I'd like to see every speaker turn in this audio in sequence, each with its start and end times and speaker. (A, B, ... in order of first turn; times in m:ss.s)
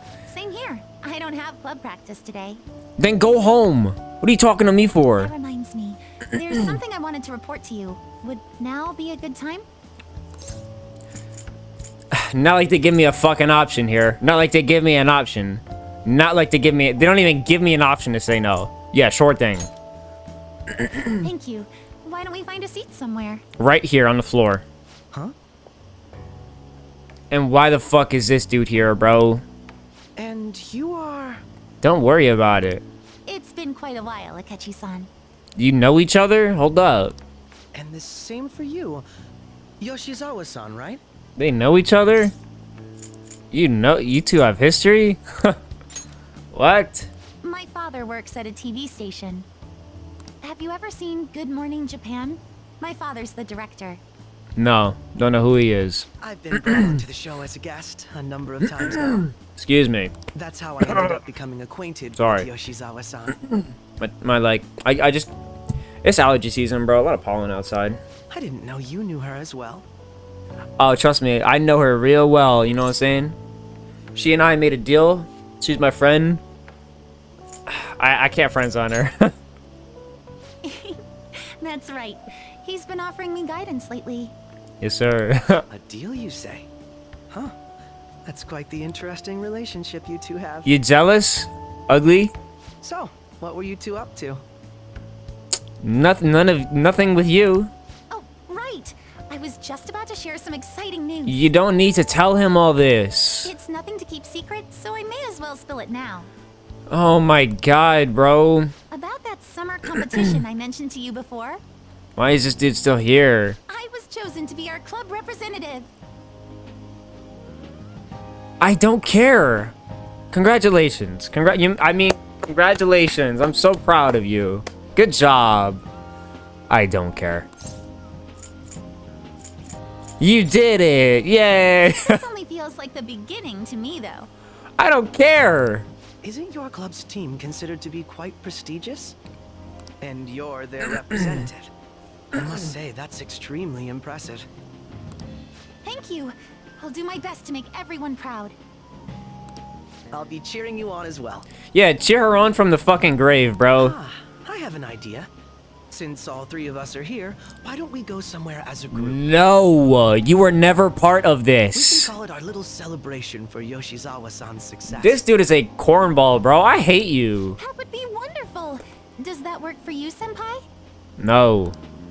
0:00.3-0:02.6 A
0:03.0-0:05.3 B
0:05.2-0:09.6 A
0:12.1-0:19.7 B
0:20.7-0:21.1 B
0:21.2-0:23.4 A
0:23.6-0:24.6 B
0:27.3-0:29.4 B
0:30.2-0:31.4 C
0:31.8-0:32.8 B
0:33.3-0:35.1 A
0:35.6-0:37.2 B
0:37.7-0:39.0 C
0:39.8-0:41.0 C
0:41.4-0:42.4 B
0:43.5-0:45.6 B
0:46.5-0:47.1 B
0:47.4-0:49.5 A
0:50.4-0:54.0 A
0:54.6-0:56.1 B
0:56.2-0:59.3 C
0:59.4-1:00.2 B
1:00.3-1:03.5 C
1:00.8-1:01.2 B
1:02.2-1:02.5 B
1:04.0-1:05.3 B
1:06.0-1:08.0 B
1:08.3-1:09.9 C
1:10.8-1:13.4 B
1:14.1-1:16.4 B
1:17.7-1:19.3 B
1:20.6-1:24.3 A
1:24.8-1:25.6 B
1:25.7-1:26.7 C
1:27.3-1:27.6 C
1:28.2-1:30.7 C
1:30.6-1:32.3 B
1:32.8-1:34.4 C
1:35.8-1:37.7 B
1:38.1-1:41.4 A
1:41.3-1:43.5 B
1:43.4-1:46.3 A
1:46.9-1:48.7 B
1:48.9-1:51.6 A
1:52.2-1:53.6 B
1:53.7-1:55.9 A
1:58.6-1:59.8 B
2:00.3-2:05.8 B
2:06.7-2:07.5 B
2:10.2-2:12.2 B
2:12.0-2:14.3 A
2:14.8-2:15.9 B
2:16.2-2:19.2 C
2:20.0-2:21.7 C
2:22.3-2:24.5 C
2:25.8-2:28.6 A
2:30.1-2:31.5 C
2:31.7-2:34.0 B
2:33.8-2:35.3 C
2:35.9-2:39.2 C
2:38.9-2:42.1 B
2:41.7-2:45.2 C
2:44.9-2:47.6 B
2:47.6-2:50.6 A
2:51.2-2:51.8 B